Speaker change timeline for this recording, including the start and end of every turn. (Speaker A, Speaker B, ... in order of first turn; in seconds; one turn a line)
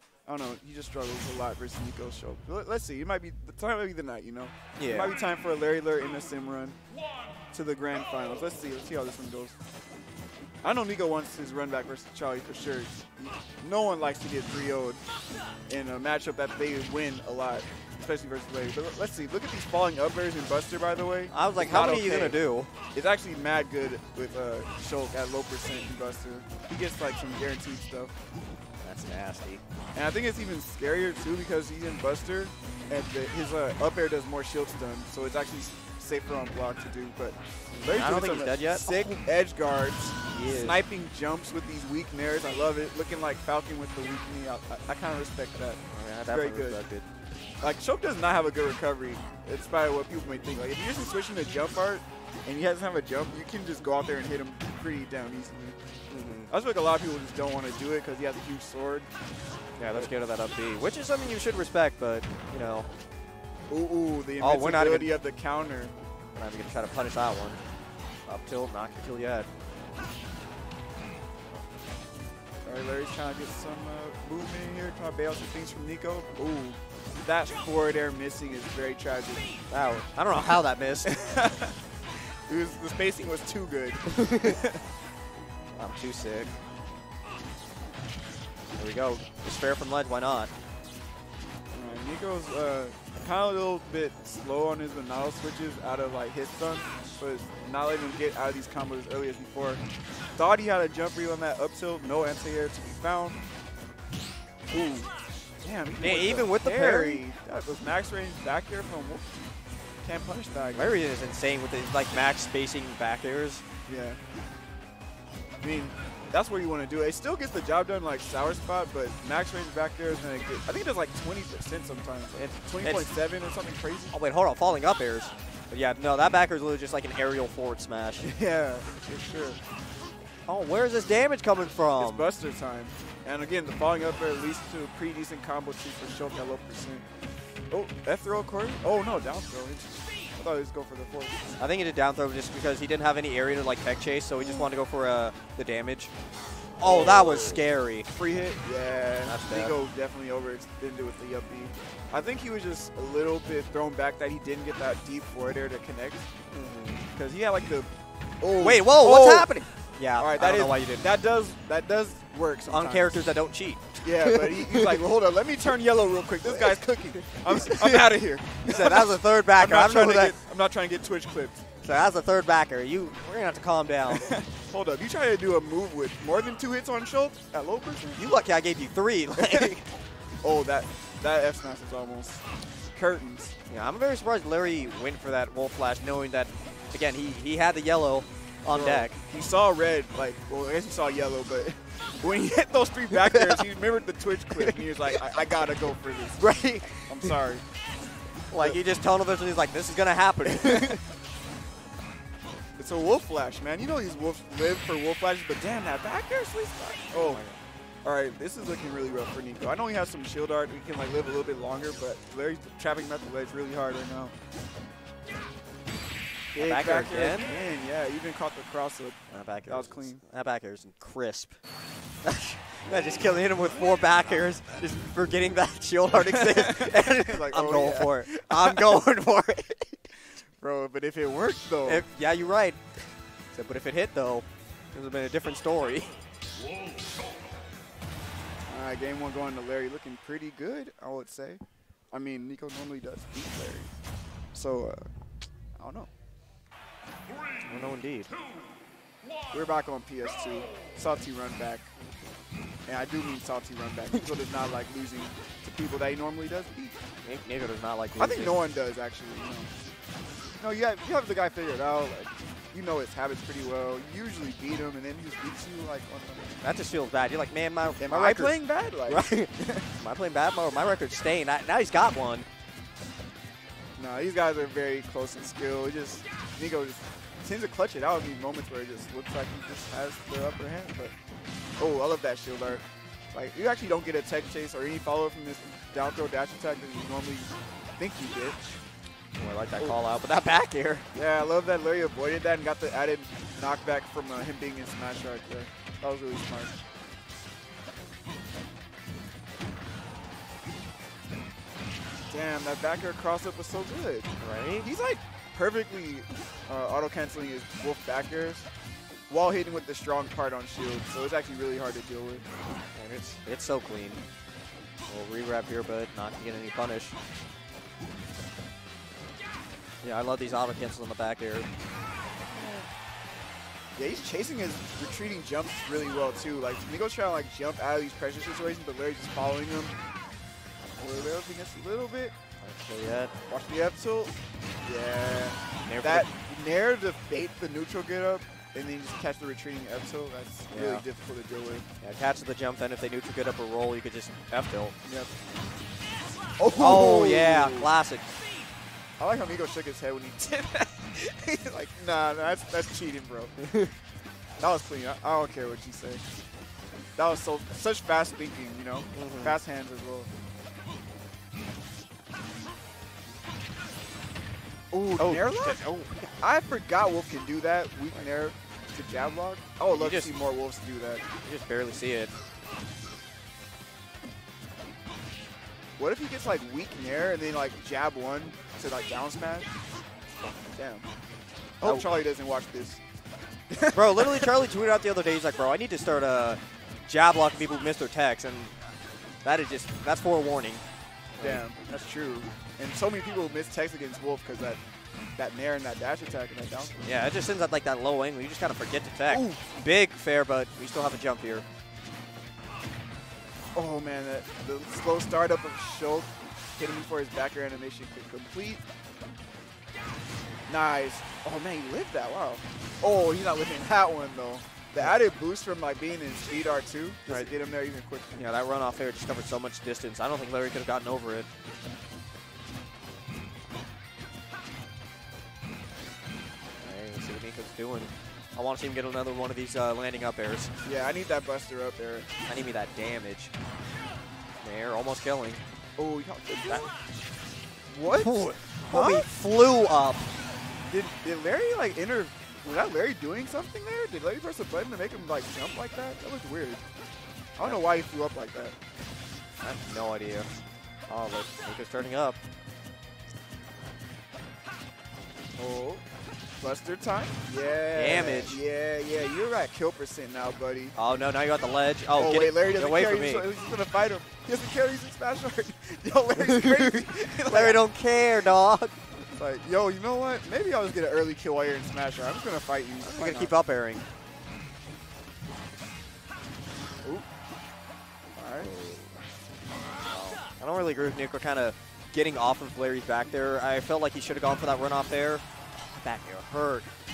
Speaker A: 0.3-6.8
Speaker B: 4.8-5.2
Speaker A: 7.5-9.6
Speaker A: 10.6-15.0
Speaker A: 15.7-22.4
Speaker B: 21.3-22.7
Speaker A: 22.9-28.1
Speaker B: 28.8-29.6
Speaker A: 29.9-46.8
Speaker B: 37.8-39.0
Speaker B: 40.3-40.8
Speaker B: 45.9-47.0
Speaker A: 47.6-55.8
Speaker B: 56.1-56.5
Speaker A: 56.5-59.1
Speaker B: 59.8-62.9
Speaker A: 63.7-65.9
Speaker B: 64.4-65.1
Speaker B: 66.3-67.6
Speaker B: 68.3-69.5
Speaker A: 72.7-79.5
Speaker B: 79.7-81.1
Speaker A: 81.0-81.8
Speaker A: 82.5-84.8
Speaker B: 84.1-84.6
Speaker B: 85.7-86.6
Speaker B: 88.8-90.5
Speaker A: 91.7-99.8
Speaker A: 100.4-103.4
Speaker A: 104.7-105.1
Speaker A: 105.6-109.3
Speaker B: 106.0-107.2
Speaker A: 110.0-110.9
Speaker B: 110.7-113.6
Speaker A: 113.9-114.2
Speaker A: 115.6-124.2
Speaker B: 122.4-123.1
Speaker B: 124.1-128.4
Speaker A: 128.3-129.6
Speaker B: 130.5-132.3
Speaker A: 132.0-137.1
Speaker A: 137.7-141.4
Speaker B: 141.6-146.1
Speaker A: 144.4-144.7
Speaker B: 146.8-148.1
Speaker A: 146.8-156.3
Speaker B: 149.2-149.8
Speaker B: 156.5-157.0
Speaker A: 157.1-157.9
Speaker A: 158.4-159.5
Speaker B: 158.6-161.1
Speaker A: 160.2-163.2
Speaker B: 162.7-165.0
Speaker A: 164.0-171.6
Speaker B: 166.4-166.8
Speaker B: 167.3-170.4
Speaker B: 171.8-174.3
Speaker A: 174.1-178.2
Speaker B: 178.2-179.9
Speaker A: 179.4-179.7
Speaker A: 180.4-183.6
Speaker B: 183.7-189.2
Speaker A: 188.7-196.5
Speaker B: 193.1-193.7
Speaker B: 194.5-194.8
Speaker B: 196.4-197.4
Speaker A: 197.0-197.7
Speaker B: 198.5-201.0
Speaker A: 200.4-201.0
Speaker A: 202.8-207.4
Speaker B: 207.1-207.6
Speaker A: 208.0-214.3
Speaker B: 216.5-217.5
Speaker A: 216.6-220.2
Speaker B: 219.3-221.6
Speaker B: 222.2-230.0
Speaker A: 226.2-229.0
Speaker A: 230.6-232.1
Speaker B: 231.8-236.1
Speaker A: 238.7-241.6
Speaker A: 242.1-243.9
Speaker A: 244.5-245.1
Speaker A: 245.8-246.1
Speaker B: 247.7-248.3
Speaker A: 249.5-251.9
Speaker A: 252.9-257.0
Speaker B: 257.2-258.6
Speaker A: 258.2-259.7
Speaker A: 260.6-266.6
Speaker B: 266.6-272.5
Speaker A: 268.0-269.9
Speaker A: 274.0-281.1
Speaker A: 281.8-288.8
Speaker B: 289.4-291.1
Speaker A: 291.1-296.8
Speaker A: 302.3-308.7
Speaker B: 304.4-304.9
Speaker A: 309.3-312.5
Speaker B: 313.0-314.2
Speaker B: 315.1-317.2
Speaker B: 320.0-321.7
Speaker A: 324.0-330.0
Speaker A: 331.0-332.4
Speaker B: 332.6-333.3
Speaker A: 333.5-341.9
Speaker B: 335.9-336.3
Speaker B: 340.7-341.1
Speaker B: 342.0-344.9
Speaker A: 345.1-345.3
Speaker A: 346.6-347.9
Speaker B: 346.8-348.3
Speaker A: 349.2-353.6
Speaker B: 353.6-353.9
Speaker A: 354.6-356.2
Speaker A: 357.2-360.3
Speaker B: 359.1-359.6
Speaker A: 364.9-365.8
Speaker B: 365.2-366.3
Speaker A: 366.4-371.2
Speaker B: 369.9-370.3
Speaker B: 371.4-372.3
Speaker A: 376.0-379.8
Speaker A: 380.7-381.1
Speaker A: 381.8-383.0
Speaker A: 383.7-384.5
Speaker B: 383.9-390.8
Speaker B: 391.3-391.6
Speaker A: 391.4-394.8
Speaker A: 395.4-397.0
Speaker B: 396.9-401.7
Speaker A: 399.3-399.6
Speaker A: 403.8-408.8
Speaker A: 410.7-418.4
Speaker B: 418.4-421.5
Speaker B: 426.8-430.8
Speaker A: 430.8-432.3
Speaker B: 432.5-433.5
Speaker B: 434.6-435.6
Speaker A: 436.0-436.9
Speaker A: 437.9-439.3
Speaker B: 438.1-440.3
Speaker A: 440.9-446.8
Speaker A: 447.6-448.8
Speaker B: 449.6-450.5
Speaker B: 451.1-452.4
Speaker A: 455.6-456.0
Speaker A: 456.6-460.9
Speaker B: 457.9-458.6
Speaker B: 460.9-463.5
Speaker A: 462.1-467.8
Speaker B: 466.4-468.9
Speaker A: 469.4-473.5
Speaker B: 473.0-474.0
Speaker A: 478.4-478.7
Speaker B: 478.6-479.2
Speaker B: 480.1-485.4
Speaker B: 486.0-486.9